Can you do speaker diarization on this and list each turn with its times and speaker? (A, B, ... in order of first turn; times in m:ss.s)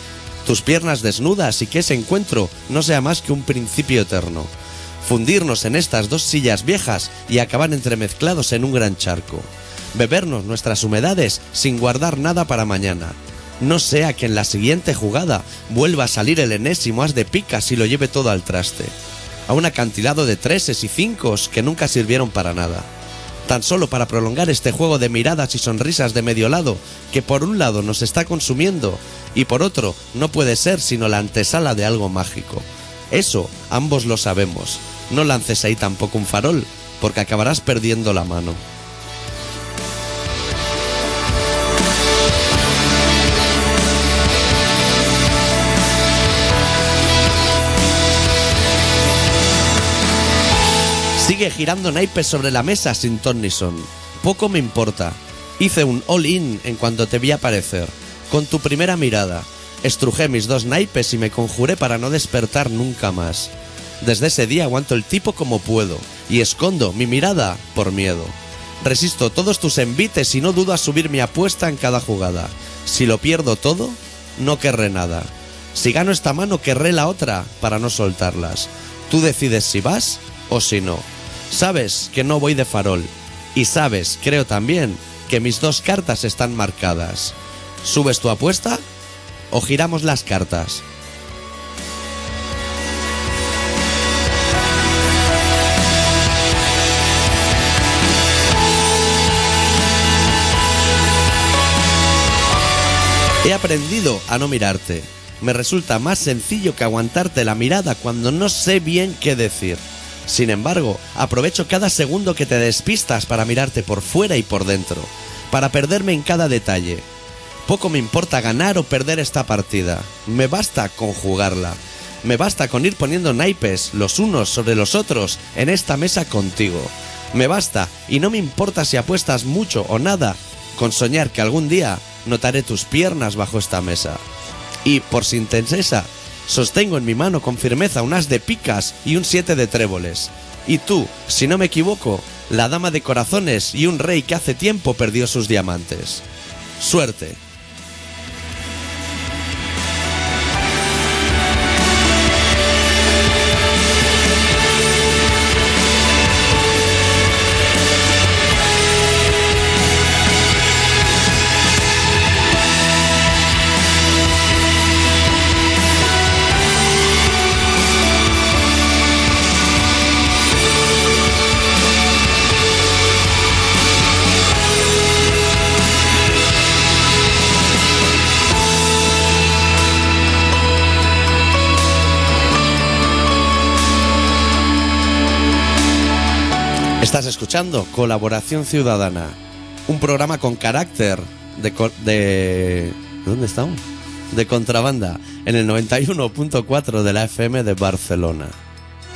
0:00.4-0:04.5 A
0:05.0-0:18.9 A
0:19.5-0:22.9 A
0:23.4-0:38.6 A
0:51.2-1:28.8 A
1:29.5-1:30.8 A
1:43.4-1:57.0 A
1:57.6-2:14.2 A
2:14.8-2:26.2 A
2:26.8-2:27.4 A
3:07.0-3:18.6 A